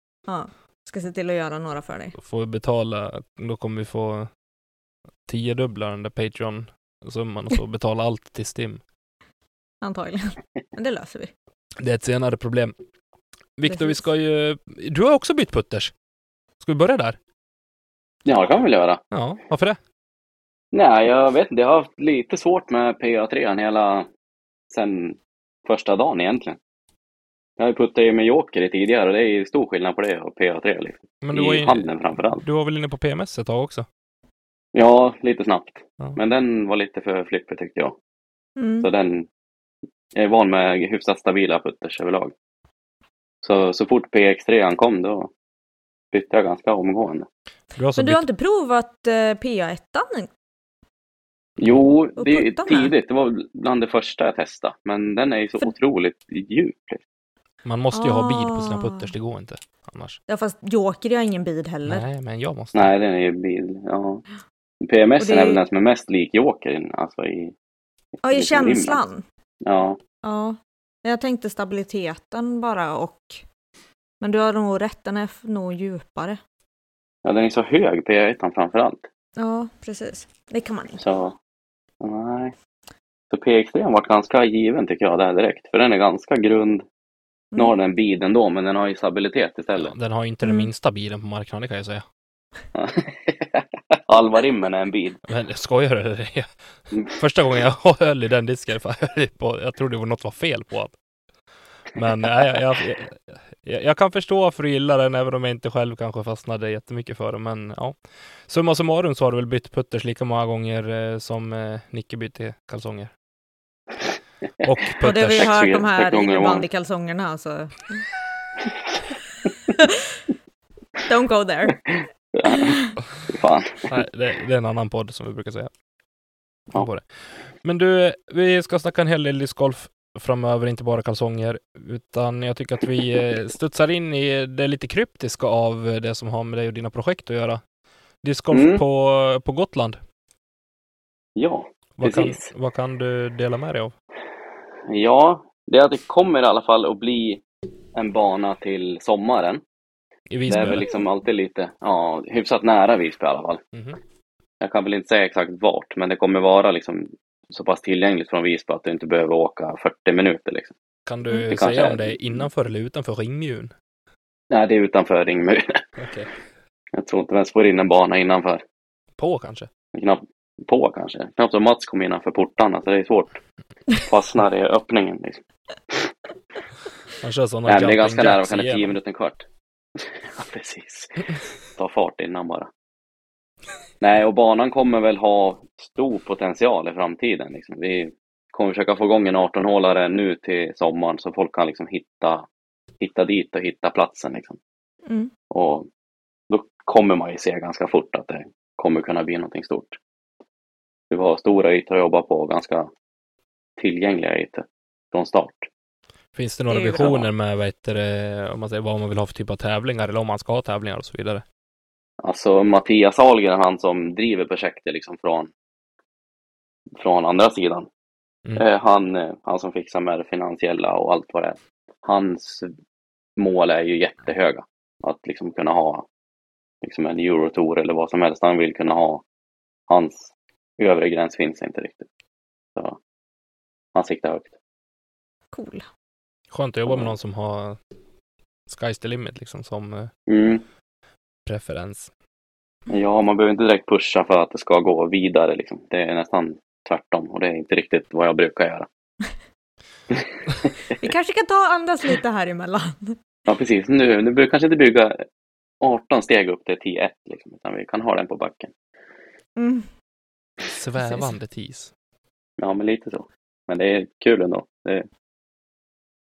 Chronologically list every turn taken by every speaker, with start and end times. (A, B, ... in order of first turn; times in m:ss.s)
0:00.3-0:02.2 A
0:02.2-0:04.3 B
0:05.3-0:08.8 B
0:09.8-0:11.3 A
0:11.8-0:12.8 B
0:13.6-0:15.9 B
0:13.7-0:14.0 A
0:16.6-0:17.2 B
0:18.2-0:19.0 C
0:19.1-0:19.8 B
0:20.7-0:24.1 C
0:24.7-0:26.6 C
0:27.6-0:32.4 C
0:31.2-0:31.8 B
0:32.4-0:33.9 B
0:34.8-0:38.0 C
0:38.6-0:38.9 A
0:38.8-0:39.3 C
0:40.1-0:42.3 C
0:43.4-0:45.3 C
0:46.1-0:47.3 C
0:47.8-0:48.2 B
0:48.0-0:50.3 A
0:51.6-0:57.0 C
0:52.2-0:52.9 A
0:57.6-1:00.2 B
0:57.9-0:59.1 A
1:00.3-1:02.0 A
1:01.9-1:02.9 B
1:02.8-1:04.2 C
1:04.8-1:07.5 C
1:05.2-1:05.6 A
1:08.2-1:09.2 A
1:08.3-1:09.0 C
1:09.6-1:10.0 C
1:10.2-1:13.4 A
1:14.2-1:16.4 A
1:17.2-1:19.1 C
1:19.4-1:21.0 A
1:21.0-1:21.4 C
1:22.0-1:22.6 C
1:23.3-1:26.8 C
1:27.6-1:29.9 C
1:29.8-1:32.0 B
1:30.4-1:30.7 A
1:32.8-1:35.2 C
1:35.3-1:36.5 B
1:37.0-1:40.9 B
1:41.9-1:48.0 B
1:48.5-1:53.1 B
1:54.6-1:55.6 B
1:55.0-1:58.0 A
1:55.4-1:56.7 C
2:01.1-2:01.8 A
2:02.3-2:02.7 C
2:02.4-2:02.9 A
2:03.3-2:03.9 C
2:03.9-2:05.7 B
2:06.7-2:07.0 B
2:07.6-2:17.6 B
2:18.2-2:20.0 B
2:18.5-2:18.8 C
2:21.4-2:22.5 C
2:22.0-2:23.9 B
2:24.9-2:27.4 C
2:28.0-2:29.6 C
2:30.3-2:30.9 B
2:30.5-2:33.6 C
2:34.6-2:40.7 C
2:41.1-2:43.7 B
2:41.4-2:42.5 C
2:44.5-2:45.8 C
2:46.0-2:46.3 B
2:47.0-2:48.6 C
2:49.2-2:49.7 B
2:49.9-2:53.4 C
2:53.9-2:56.1 C
2:57.2-2:58.9 B
2:57.7-2:59.4 C
3:00.0-3:02.7 C
3:04.0-3:12.5 C
3:13.0-3:14.6 C
3:15.1-3:15.3 A
3:15.5-3:15.9 C
3:16.5-3:20.0 C
3:21.1-3:22.9 C
3:23.8-3:25.7 C
3:26.4-3:31.4 B
3:26.7-3:27.1 A
3:27.0-3:27.3 C
3:32.2-3:35.5 C
3:37.0-3:37.9 C
3:38.6-3:42.7 C
3:43.4-3:46.1 C
3:46.8-3:49.2 C
3:49.9-3:52.1 C
3:54.0-3:54.5 C
3:55.5-3:55.8 A
3:56.5-3:57.8 B
3:56.9-3:57.1 C
3:58.7-4:00.1 B
4:00.3-4:00.6 C
4:01.5-4:02.1 B
4:02.9-4:08.9 C
4:10.9-4:13.2 A
4:13.5-4:15.2 C
4:15.8-4:18.7 C
4:19.6-4:19.9 A
4:20.7-4:21.9 B
4:22.6-4:25.1 C